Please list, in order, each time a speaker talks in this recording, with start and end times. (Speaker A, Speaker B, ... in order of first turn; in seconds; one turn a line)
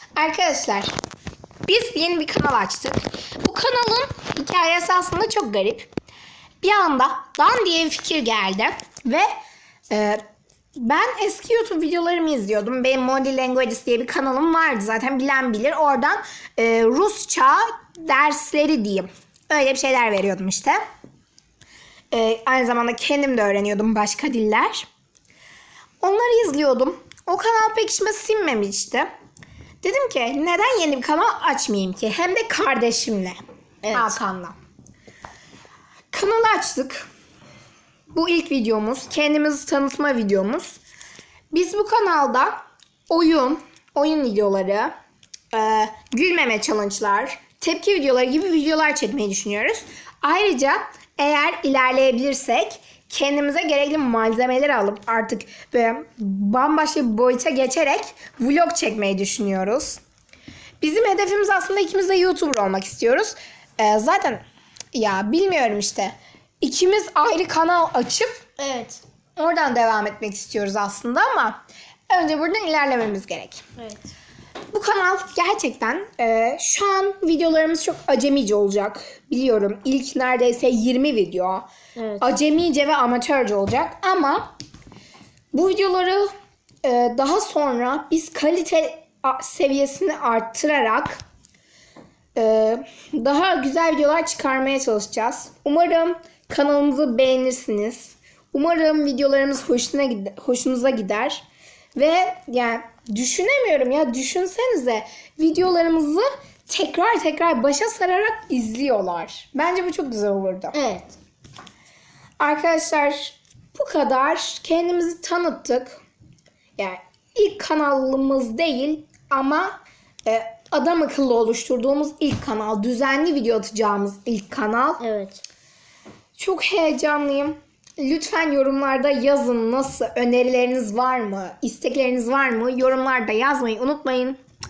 Speaker A: 0.2-0.9
Speaker A: 1.7-5.9
Speaker A: 6.6-9.3
Speaker A: 9.9-10.2
Speaker A: 10.8-20.8
Speaker A: 22.1-24.9
Speaker A: 26.0-29.1
Speaker A: 29.8-33.4
Speaker B: 33.8-34.2
Speaker A: 33.9-34.6
Speaker A: 36.1-37.1
Speaker A: 38.1-40.8
Speaker A: 41.5-44.9
Speaker A: 45.5-60.0
Speaker A: 60.8-64.4
Speaker A: 64.9-68.4
Speaker B: 68.6-69.0
Speaker A: 69.4-71.6
Speaker A: 72.1-73.6
Speaker B: 73.8-74.1
Speaker A: 74.7-81.7
Speaker B: 82.0-82.4
Speaker A: 82.2-84.5
Speaker A: 85.5-86.3
Speaker A: 86.8-91.2
Speaker A: 92.4-101.4
Speaker A: 102.0-110.8
Speaker B: 110.7-111.2
Speaker A: 112.4-116.0
Speaker A: 116.8-125.0
Speaker B: 125.0-125.4
Speaker A: 126.4-134.4